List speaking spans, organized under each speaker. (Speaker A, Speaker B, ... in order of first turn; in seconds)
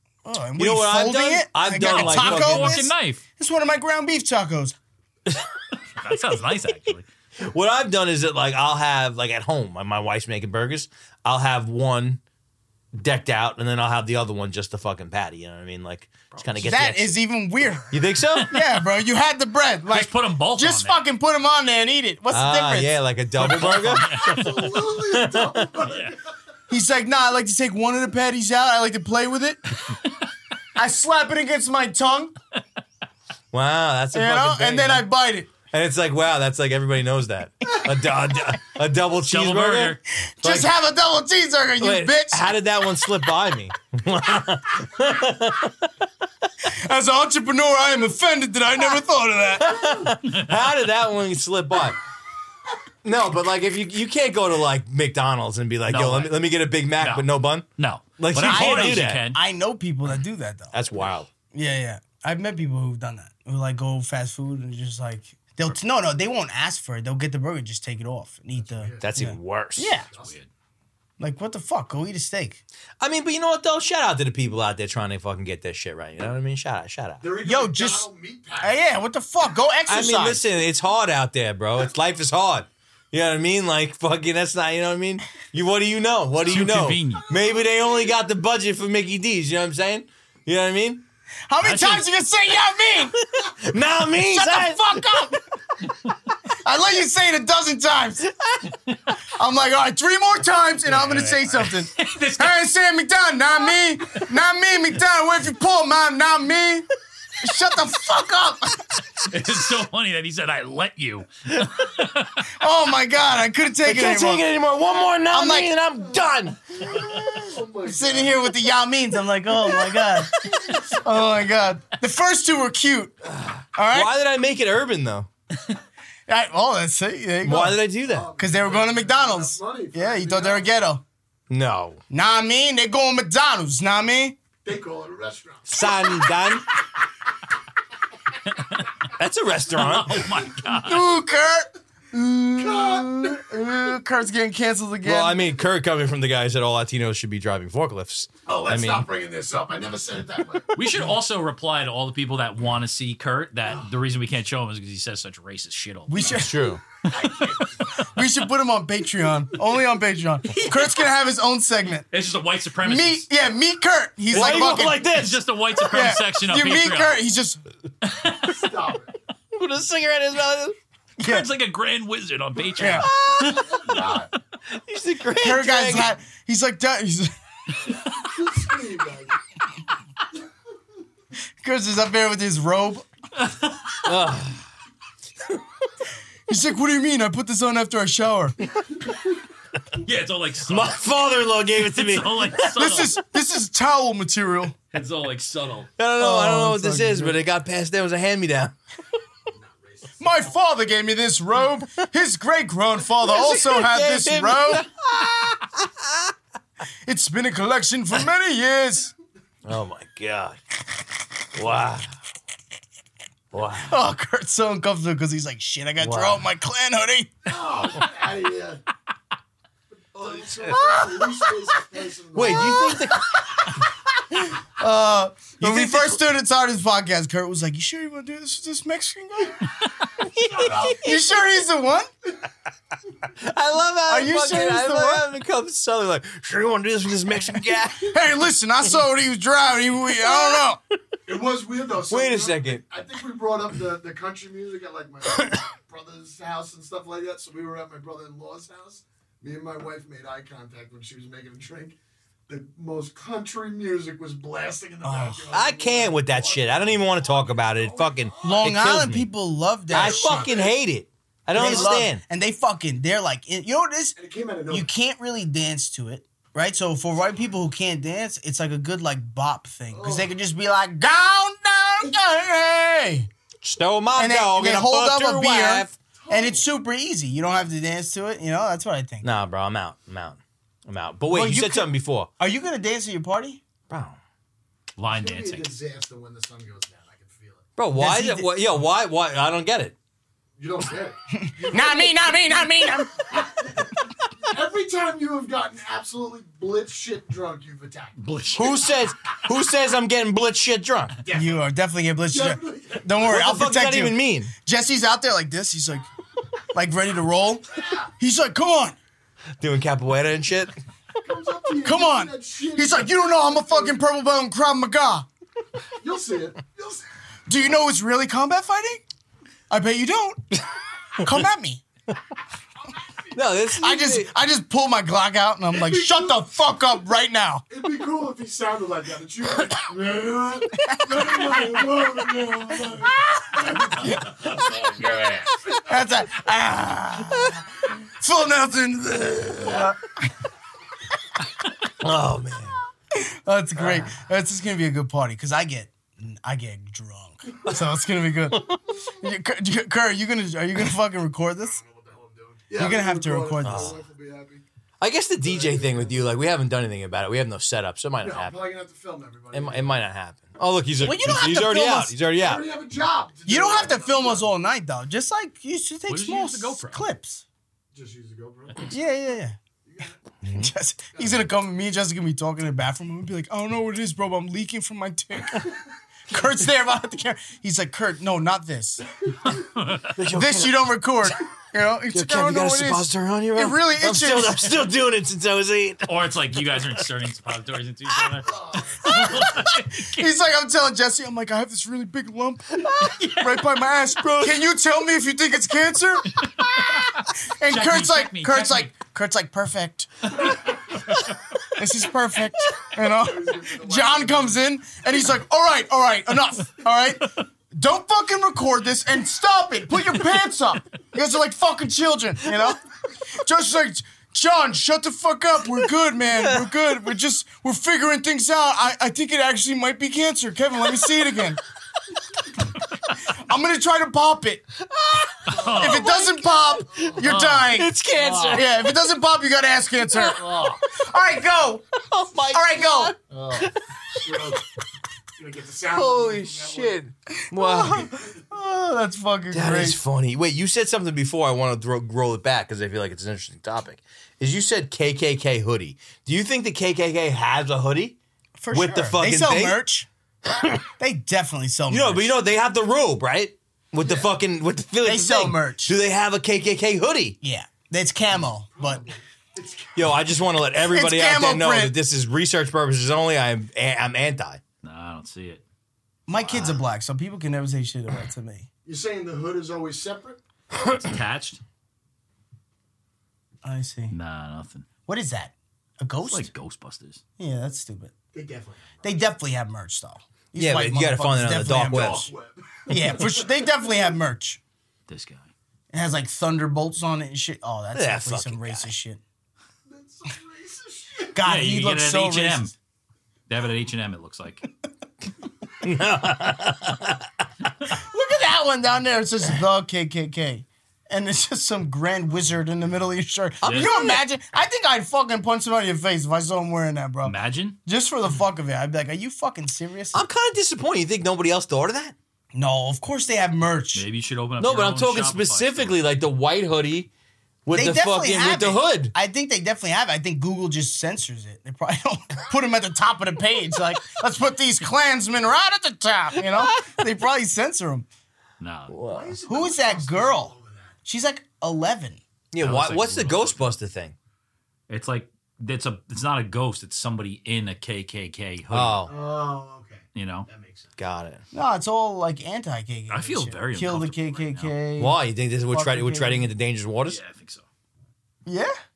Speaker A: 0.2-4.8, 16.6-24.0, 26.7-29.6, 30.8-32.3, 34.1-35.5, 40.3-42.5, 46.6-50.0, 58.4-60.7, 61.5-70.1, 71.2-72.6, 77.4-78.1, 78.6-80.4, 91.5-93.2, 94.1-95.4, 96.6-98.3, 99.3-106.9, 107.4-109.0, 112.5-114.4, 115.3-115.7, 117.8-123.1, 123.7-124.1, 126.3-127.8, 128.4-131.0, 132.1-134.4, 140.7-145.4, 156.1-156.7, 158.1-162.1, 162.8-165.0, 165.8-167.6, 171.2-171.5, 172.8-173.1, 175.3-177.3, 181.6-183.1, 186.5-188.6, 192.7-194.8, 196.2-197.4, 200.2-204.8, 207.0-209.1, 213.8-217.6, 220.7-221.2, 222.5-223.0, 224.3-229.7, 230.7-232.1, 234.1-235.2, 237.9-240.8, 255.0-255.5, 258.4-260.5, 261.5-264.2, 264.7-273.3, 274.1-279.3, 281.3-283.6, 287.9-288.5, 291.3-293.4, 301.3-306.1, 306.7-308.9, 311.8-315.3, 317.5-319.0, 319.7-320.6, 321.2-321.8, 323.7-327.6, 330.8-331.9, 332.9-334.9, 335.6-340.3, 343.1-351.8, 352.7-354.0, 361.0-362.1, 363.5-367.4, 368.9-369.6, 370.4-375.7, 376.3-379.0, 380.2-384.8, 389.0-396.4, 397.6-400.1, 401.7-412.8, 413.3-421.6, 423.3-424.6, 425.7-427.9, 428.5-431.9, 432.5-433.1, 437.5-440.0, 448.6-450.1, 451.0-452.4, 455.0-455.9, 457.4-459.0, 460.8-461.9, 466.3-468.7, 473.6-474.1, 475.1-476.5, 477.4-478.1, 479.0-482.3, 482.9-484.6, 485.9-489.2, 491.3-492.7, 497.9-507.3, 507.9-510.2, 512.5-514.0, 517.7-528.0, 529.5-530.5, 531.0-532.2, 541.5-546.5, 548.5-548.8
Speaker B: 0.6-2.8, 7.4-12.2, 12.9-17.1, 17.9-18.5, 22.3-25.7, 33.5-35.0, 35.7-40.7, 41.8-45.9, 49.6-52.0, 53.0-59.2, 60.7-61.3, 69.0-70.0, 73.0-77.2, 79.9-91.0, 93.4-95.0, 113.8-116.8, 123.3-125.3, 127.4-128.3, 131.5-132.0, 135.7-136.7, 139.1-140.3, 145.0-149.1, 156.3-156.8, 164.3-165.4, 169.5-170.8, 173.0-173.8, 174.7-176.1, 184.0-184.6, 190.7-192.8, 196.0-198.7, 203.2-206.3, 209.6-210.6, 211.5-212.2, 213.5-213.9, 216.0-216.4, 220.6-221.2, 222.3-223.7, 225.6-226.2, 230.3-230.9, 233.3-238.1, 242.1-242.8, 255.5-259.3, 259.9-262.2, 273.6-275.9, 279.2-282.3, 283.9-284.2, 287.8-289.9, 298.5-301.1, 303.2-304.5, 309.6-310.7, 323.3-324.3, 342.0-342.8, 343.8-344.1, 353.6-354.0, 355.0-358.6, 359.5-362.6, 380.1-380.9, 382.1-386.2, 394.2-394.6, 424.9-428.8, 430.1-430.8, 432.0-434.5, 435.9-438.1, 439.5-448.2, 448.7-449.8, 450.5-450.8, 451.9-457.4, 459.9-464.6, 466.4-466.7, 480.6-482.3, 487.9-488.9, 495.8-497.2, 510.1-512.1, 514.6-517.1, 517.6-519.1, 528.9-529.4, 532.5-534.1, 538.7-539.1, 541.0-541.4, 545.0-547.2
Speaker C: 1.8-3.2, 6.0-7.0, 18.4-18.6, 19.9-21.0, 23.4-24.8, 25.9-26.1, 39.2-40.0, 55.9-56.4, 57.0-59.4, 70.2-70.5, 86.5-87.2, 91.6-92.0, 100.9-102.6, 109.3-112.5, 139.8-141.0, 150.7-156.5, 157.2-157.6, 160.6-161.0, 162.1-163.2, 164.3-167.2, 168.0-168.6, 171.2-174.1, 183.4-183.9, 190.0-191.0, 191.8-193.2, 194.9-195.9, 285.0-285.7, 298.2-298.8, 334.9-335.4, 366.1-367.1, 379.6-380.1, 386.1-390.2, 396.8-398.9, 425.5-426.1, 427.2-428.6, 464.8-465.6, 470.8-471.6, 474.1-474.9, 476.2-477.2, 485.1-485.5, 491.4-492.7, 493.5-494.7, 503.6-504.1, 507.2-507.8, 513.9-516.0, 528.6-529.0, 532.6-533.7, 534.9-539.1, 540.1-540.5, 543.1-544.7, 547.0-547.6
Speaker D: 24.0-26.2, 68.5-69.0, 70.0-70.4, 77.2-78.8, 87.3-87.7, 116.7-118.4, 128.0-130.7, 134.6-136.5, 142.6-143.6, 148.4-150.7, 157.1-158.1, 168.4-169.1, 173.4-174.3, 177.9-179.3, 199.5-200.5, 217.4-218.8, 220.1-222.9, 230.3-231.3, 241.2-251.9, 252.5-258.6, 259.9-260.8, 261.5-262.1, 264.2-264.9, 269.9-270.3, 276.2-276.6, 285.1-287.6, 290.6-298.2, 301.2-301.6, 302.3-303.5, 311.2-314.0, 316.0-317.0, 325.7-326.4, 327.7-334.1, 351.6-354.6, 355.4-356.2, 358.2-360.0, 362.4-364.5, 367.9-368.9, 369.8-370.2, 371.1-371.4, 388.4-389.2, 403.1-404.6, 425.5-426.3, 426.9-427.2, 434.2-434.6, 435.4-437.0, 438.0-438.3, 454.0-454.3, 458.7-460.2, 468.8-470.4, 478.3-479.0, 481.8-483.8, 489.9-491.3, 529.1-530.9, 539.1-540.9